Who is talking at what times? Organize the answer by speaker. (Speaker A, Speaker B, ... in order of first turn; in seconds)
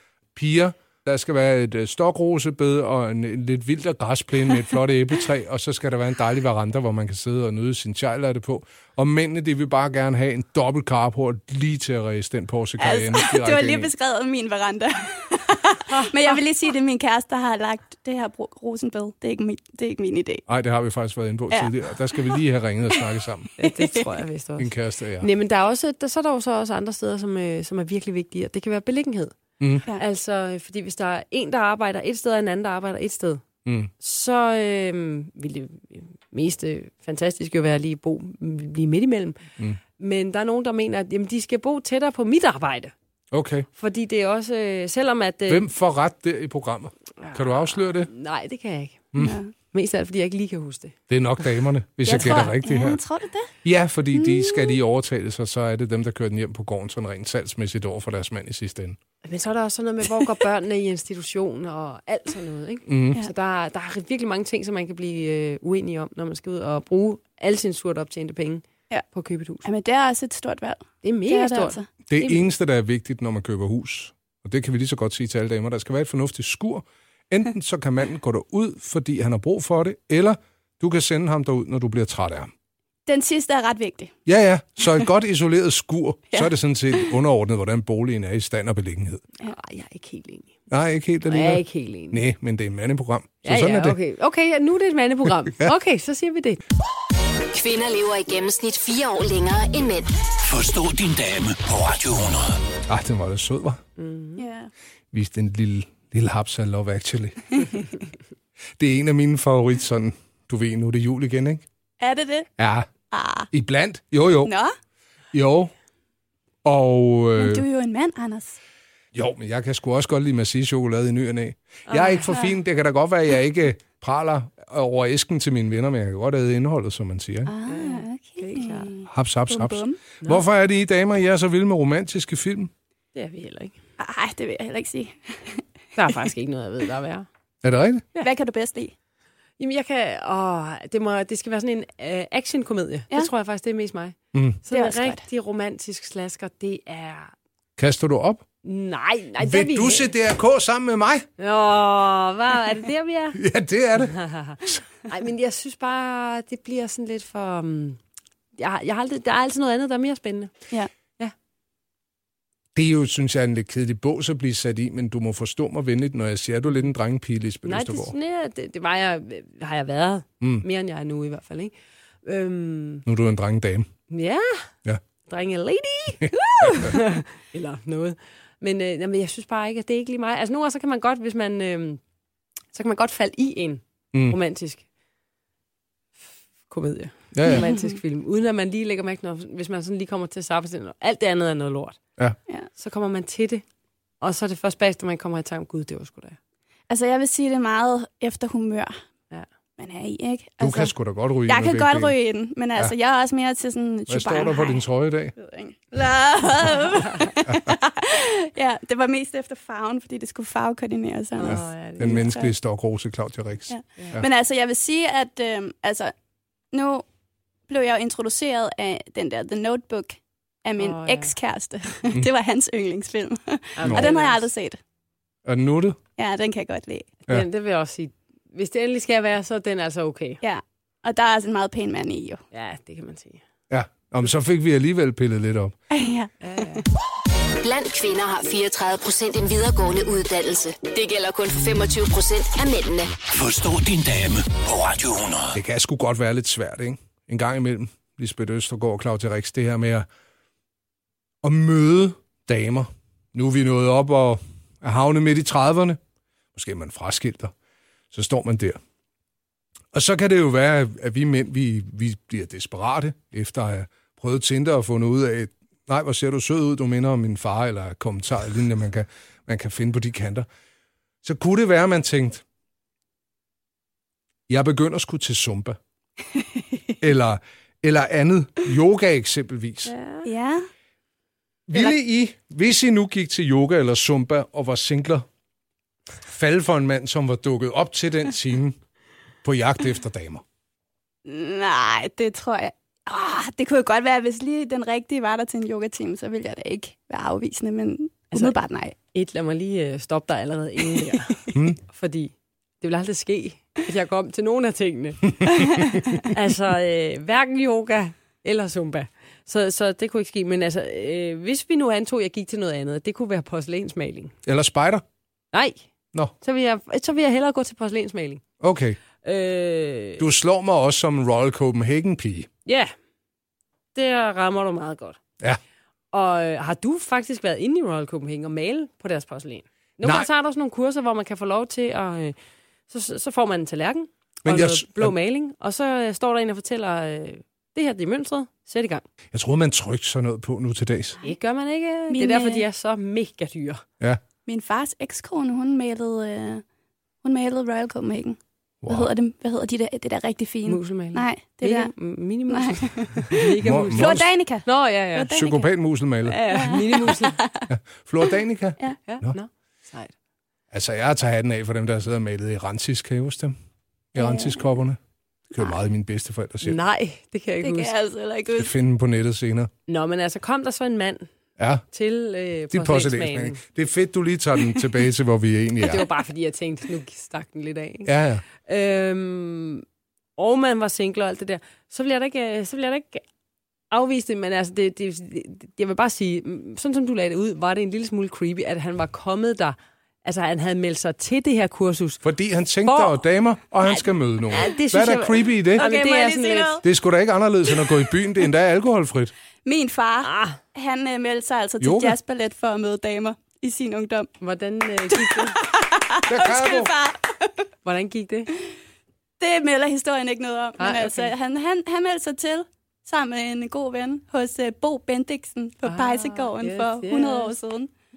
Speaker A: 0.3-13.9, 20.5-23.5, 24.6-25.3, 29.6-29.8, 43.3-43.6, 45.5-48.1, 49.1-49.4, 51.1-53.0, 53.6-59.0, 62.9-63.2, 72.1-82.5, 84.2-89.2, 90.7-94.0, 102.9-103.8, 105.1-107.7, 108.8-111.6, 112.6-112.9, 113.5-114.5, 115.3-115.7, 116.6-117.7, 119.1-127.5, 129.1-132.7, 137.6-138.1, 144.3-144.6, 147.8-148.4, 149.4-151.3, 153.3-154.8, 162.7-168.1, 173.1-173.9, 176.2-176.9, 187.3-187.7, 200.6-202.1, 204.1-205.3, 211.4-214.3, 223.8-224.1, 225.4-226.0, 233.7-235.8, 245.5-250.1, 251.4-256.0, 256.5-257.5, 258.1-258.8, 259.9-270.5, 271.2-272.4, 274.5-275.8, 277.0-279.9, 281.7-285.2, 286.3-288.8, 289.4-290.4, 301.5-301.8, 314.4-315.0, 318.6-319.0, 320.2-322.5, 330.0-330.3, 334.4-335.1, 339.3-341.2, 348.8-349.1, 353.6-354.3, 355.3-356.4, 357.7-359.4, 360.7-363.5, 364.1-365.0, 365.5-366.8, 368.6-369.7, 371.6-371.8, 372.7-376.1, 378.0-378.4, 392.2-395.9, 396.8-399.3, 401.8-402.1, 406.3-406.9
Speaker B: 12.8-20.4, 21.5-22.4, 23.6-24.0, 49.2-49.5, 52.0-53.5, 54.1-54.8, 69.6-72.4, 83.0-84.1, 86.3-87.1, 104.4-104.7, 112.0-112.5, 113.1-113.5, 114.4-114.7, 117.3-118.6, 127.5-130.0, 134.0-135.6, 138.2-138.9, 144.7-145.2, 187.4-188.0, 196.9-198.9, 199.8-200.9, 201.4-204.8, 205.3-212.5, 213.7-216.1, 216.7-217.0, 217.7-224.8, 226.2-227.1, 230.4-232.4, 235.9-236.8, 280.2-280.7, 291.2-298.9, 305.5-305.9, 342.1-342.6, 344.5-346.6, 347.2-351.9, 352.5-355.7, 356.2-357.7, 364.1-364.6, 367.6-368.7, 395.8-396.8, 399.6-404.3, 405.1-407.7, 409.4-417.9
Speaker C: 23.6-24.7, 25.2-33.4, 34.0-39.4, 40.0-42.9, 43.8-45.7, 47.2-49.1, 49.7-51.0, 52.1-52.4, 59.2-69.7, 71.0-71.8, 89.4-90.5, 91.3-92.2, 93.4-96.6, 104.0-104.4, 121.9-122.3, 127.7-128.9, 133.1-133.7, 136.0-137.3, 139.6-147.3, 148.6-150.1, 151.4-153.4, 154.0-158.0, 158.6-160.5, 167.6-171.7, 172.2-173.0, 174.1-174.7, 175.2-182.0, 182.7-184.8, 186.7-192.0, 192.8-193.6, 194.2-196.4, 206.9-207.3, 211.4-212.3, 214.0-214.2, 220.8-221.3, 223.8-224.5, 227.2-230.4, 232.5-233.4, 236.4-236.8, 279.9-280.3, 299.1-305.6, 306.3-314.3, 315.5-315.8, 316.4-318.4, 319.2-320.2, 322.6-322.9, 323.9-325.2, 326.1-332.4, 332.9-339.0, 341.2-343.8, 350.6-355.4, 356.3-357.4, 359.1-360.1, 366.6-367.9, 369.9-371.3, 371.9-373.6, 375.8-379.8, 380.4-383.2, 383.9-392.2, 392.8-393.2, 394.5-396.8, 400.2-400.6, 404.4-405.6, 407.8-408.5, 410.8-411.3, 415.8-417.5
Speaker D: 97.5-100.1, 237.6-243.2
Speaker E: 100.4-102.6, 243.3-245.6